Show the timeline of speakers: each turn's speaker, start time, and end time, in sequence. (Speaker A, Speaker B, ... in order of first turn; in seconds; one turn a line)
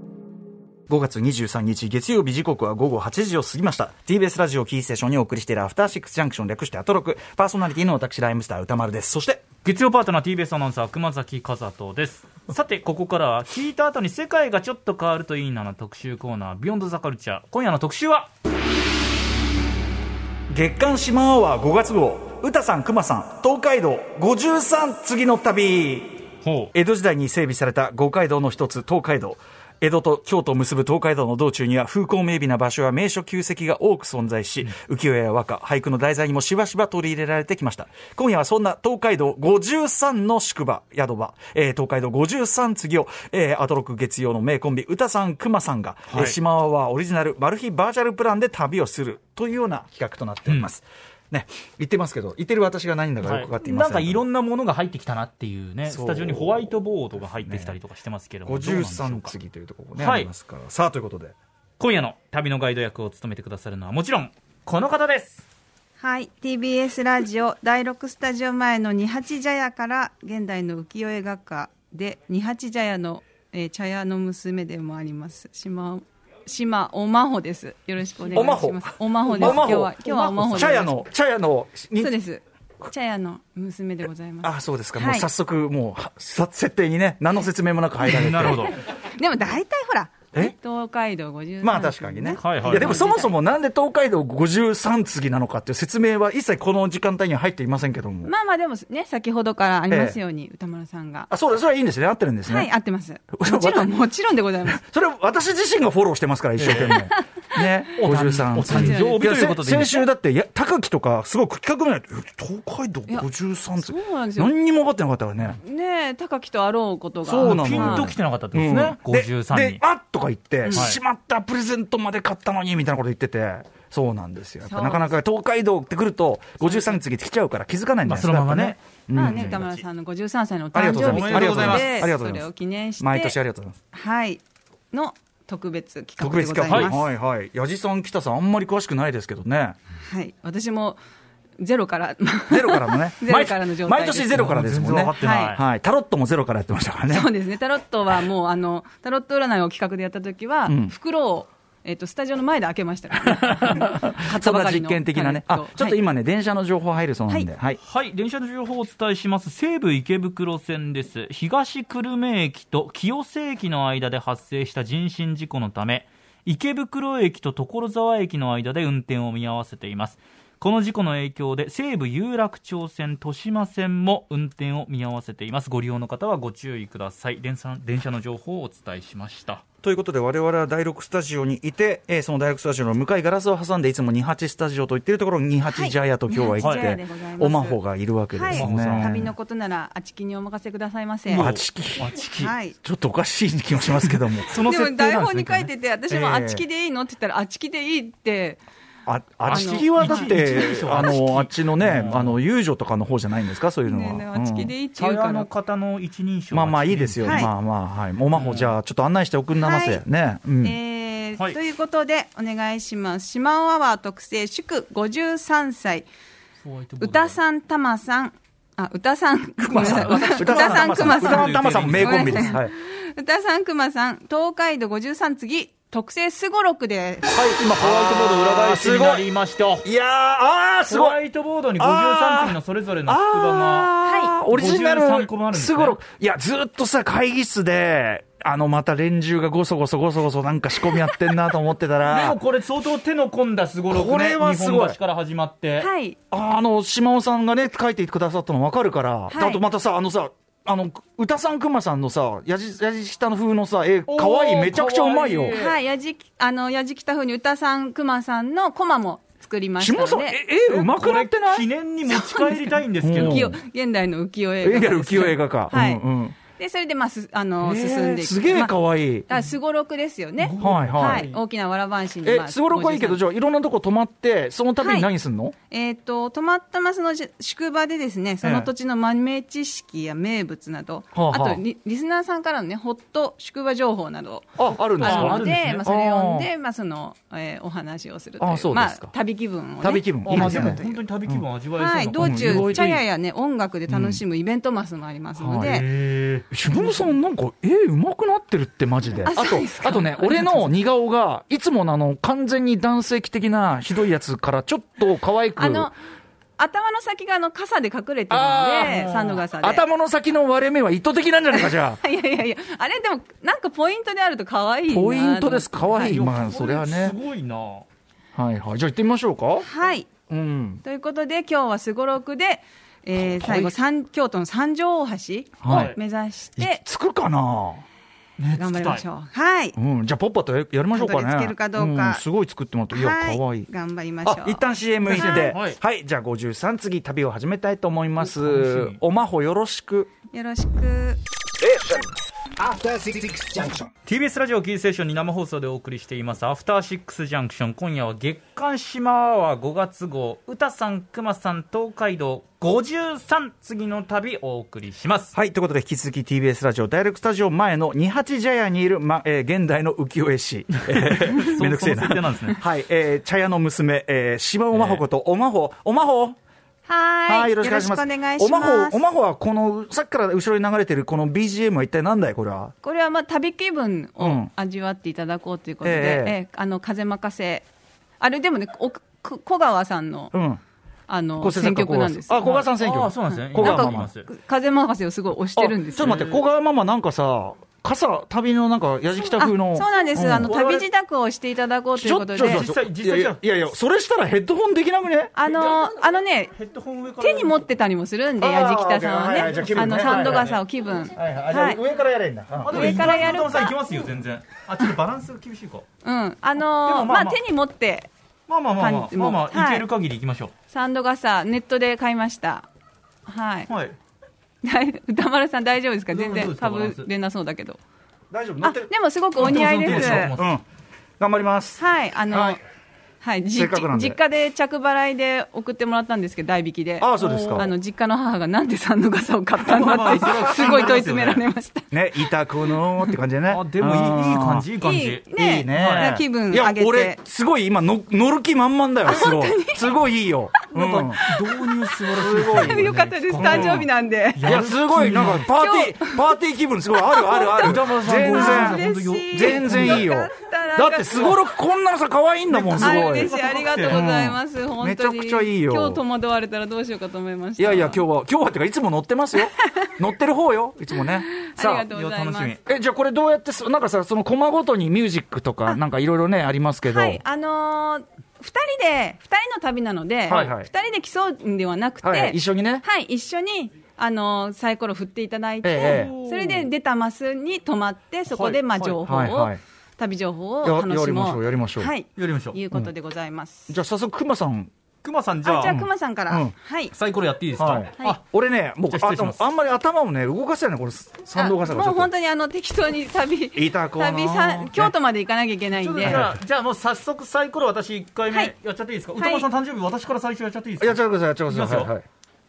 Speaker A: 0.9-9.4
Speaker B: 9.6-18.3
Speaker A: 20.5-54.2
Speaker B: 26.4-26.7
Speaker B: 46.1-46.4
Speaker B: 53.2-59.3
Speaker A: 55.9-56.7
Speaker A: 57.4-57.8
Speaker A: 58.4-61.3
Speaker B: 60.0-60.3
Speaker B: 61.8-65.4
Speaker C: 66.0-80.9
Speaker A: 78.3-82.1
Speaker B: 79.2-80.8
Speaker C: 82.0-85.3
Speaker A: 84.4-88.7
Speaker B: 88.0-88.8
Speaker C: 88.9-93.3
Speaker A: 91.6-98.3
Speaker B: 92.4-93.1
Speaker C: 98.2-101.3
Speaker A: 99.9-100.2
Speaker A: 101.3-102.7
Speaker C: 102.5-104.8
Speaker A: 103.3-103.9
Speaker A: 104.7-115.6
Speaker B: 106.6-107.0
Speaker B: 108.0-110.1
Speaker C: 108.7-109.2
Speaker C: 113.1-114.5
Speaker C: 115.6-118.1
Speaker A: 117.2-129.6
Speaker B: 117.4-119.8
Speaker C: 120.7-120.9
Speaker B: 120.7-121.0
Speaker C: 124.6-125.1
Speaker C: 126.6-127.0
Speaker B: 128.0-129.8
Speaker C: 129.1-133.3
Speaker A: 130.7-132.5
Speaker B: 130.9-132.1
Speaker A: 133.0-133.8
Speaker C: 133.9-137.1
Speaker A: 136.2-139.8
Speaker C: 140.0-141.0
Speaker C: 141.6-144.5
Speaker A: 142.5-147.3
Speaker B: 144.3-145.6
Speaker C: 145.2-145.6
Speaker C: 147.1-156.0
Speaker A: 150.7-150.9
Speaker A: 153.3-157.8
Speaker B: 157.8-179.6
Speaker A: 179.8-189.3
Speaker C: 185.7-187.8
Speaker B: 186.6-186.9
Speaker C: 188.3-191.5
Speaker B: 188.5-189.2
Speaker B: 191.3-192.5
Speaker A: 191.3-192.2
Speaker C: 192.3-192.7
Speaker A: 192.7-194.6
Speaker B: 194.4-195.7
Speaker C: 194.6-198.6
Speaker A: 196.1-196.6
Speaker A: 199.1-204.7
Speaker B: 199.4-202.4
Speaker C: 199.5-201.1
Speaker C: 203.8-205.5
Speaker B: 205.0-207.4
Speaker A: 206.5-210.7
Speaker C: 207.2-207.5
Speaker B: 208.3-208.8
Speaker C: 209.6-210.0
Speaker C: 210.6-216.1
Speaker B: 216.6-217.4
Speaker C: 217.0-227.3
Speaker A: 219.6-222.7
Speaker B: 219.7-222.6
Speaker A: 227.3-229.3
Speaker B: 227.3-229.9
Speaker A: 229.8-231.2
Speaker B: 230.9-233.9
Speaker A: 231.8-242.4
Speaker C: 234.0-234.3
Speaker B: 234.4-236.0
Speaker B: 242.1-245.9
Speaker A: 243.9-245.0
Speaker C: 245.8-246.2
Speaker A: 246.3-255.6
Speaker C: 249.3-249.6
Speaker B: 254.1-255.8
Speaker C: 255.5-260.4
Speaker A: 259.8-261.7
Speaker B: 260.7-263.5
Speaker C: 262.1-268.7
Speaker A: 263.0-263.6
Speaker A: 264.6-266.4
Speaker A: 267.6-269.3
Speaker C: 269.3-273.2
Speaker B: 270.4-271.4
Speaker A: 270.6-271.3
Speaker A: 272.2-275.5
Speaker C: 274.8-275.1
Speaker C: 275.7-291.0
Speaker A: 278.4-278.7
Speaker A: 281.1-281.6
Speaker A: 284.6-286.5
Speaker B: 285.0-285.9
Speaker A: 288.4-289.1
Speaker A: 289.8-291.4
Speaker B: 290.2-293.0
Speaker C: 291.8-295.9
Speaker A: 292.2-293.0
Speaker A: 293.9-294.2
Speaker A: 295.4-295.8
Speaker B: 295.6-296.5
Speaker A: 296.5-305.9
Speaker C: 296.7-297.1
Speaker C: 299.2-300.7
Speaker C: 305.6-305.9
Speaker C: 306.6-309.8
Speaker A: 308.3-312.0
Speaker B: 308.8-309.4
Speaker C: 311.5-316.1
Speaker A: 314.9-317.2
Speaker B: 315.9-317.9
Speaker A: 318.3-319.7
Speaker C: 319.6-320.1
Speaker A: 320.3-320.8
Speaker C: 320.8-326.8
Speaker A: 323.1-323.7
Speaker A: 325.6-325.9
Speaker B: 325.7-326.0
Speaker A: 326.6-327.8
Speaker B: 328.4-329.0
Speaker C: 328.6-329.8
Speaker A: 329.8-333.7
Speaker C: 330.9-332.2
Speaker C: 332.9-335.5
Speaker A: 334.2-340.1
Speaker B: 335.1-335.8
Speaker B: 338.2-339.0
Speaker C: 340.3-341.2
Speaker A: 341.6-343.9
Speaker B: 344.1-355.3
Speaker A: 355.3-366.4
Speaker B: 360.8-362.6
Speaker B: 364.7-365.0
Speaker C: 366.9-369.0
Speaker A: 367.2-372.7
Speaker C: 372.8-377.6
Speaker A: 374.2-374.5
Speaker A: 375.8-376.4
Speaker C: 378.2-380.3
Speaker A: 380.3-380.6
Speaker C: 381.1-382.7
Speaker A: 381.4-384.1
Speaker B: 382.4-384.3
Speaker C: 383.5-386.2
Speaker A: 385.6-390.9
Speaker B: 386.0-386.4
Speaker C: 389.4-392.7
Speaker A: 391.9-395.3
Speaker B: 392.4-393.4
Speaker C: 395.3-396.5
Speaker B: 396.5-397.6
Speaker C: 397.2-401.8
Speaker A: 398.4-400.6
Speaker B: 399.5-400.6
Speaker A: 401.1-403.5
Speaker B: 402.6-405.8
Speaker C: 402.7-403.9
Speaker C: 406.0-408.1
Speaker B: 406.8-407.4
Speaker B: 408.5-410.5
Speaker C: 408.8-409.9
Speaker C: 410.7-412.7
Speaker C: 413.2-413.7
Speaker B: 413.7-413.9
Speaker C: 414.6-417.8
Speaker B: 416.1-417.1
Speaker A: 418.3-420.6
Speaker C: 418.6-420.3
Speaker B: 419.4-420.5
Speaker A: 421.2-422.6
Speaker C: 421.8-422.6
Speaker C: 423.2-431.9
Speaker A: 423.5-424.2
Speaker A: 427.0-427.7
Speaker B: 427.2-427.6
Speaker B: 429.7-431.4
Speaker A: 429.7-430.4
Speaker A: 431.9-434.7
Speaker B: 433.5-436.2
Speaker C: 434.8-437.2
Speaker A: 435.3-441.2
Speaker C: 439.1-439.9
Speaker C: 440.6-444.5
Speaker B: 441.2-445.5
Speaker A: 442.2-443.8
Speaker A: 444.4-453.4
Speaker C: 445.2-446.4
Speaker C: 446.9-451.4
Speaker B: 447.4-450.1
Speaker B: 452.5-454.0
Speaker C: 452.8-458.0
Speaker A: 453.9-456.0
Speaker A: 457.6-461.9
Speaker C: 461.1-462.5
Speaker B: 461.9-462.6
Speaker A: 462.6-467.2
Speaker C: 466.9-483.7
Speaker A: 470.3-470.7
Speaker A: 472.0-472.8
Speaker A: 475.6-476.1
Speaker B: 475.8-476.7
Speaker B: 478.3-479.0
Speaker A: 479.0-479.6
Speaker A: 480.6-481.9
Speaker B: 482.1-482.6
Speaker A: 483.7-484.7
Speaker B: 485.0-485.8
Speaker C: 485.4-486.9
Speaker A: 485.6-486.5
Speaker B: 486.9-488.2
Speaker A: 487.6-492.1
Speaker B: 488.9-489.4
Speaker C: 491.3-496.2
Speaker A: 493.5-494.9
Speaker B: 495.8-501.9
Speaker A: 496.0-496.3
Speaker C: 499.2-499.5
Speaker A: 500.8-502.0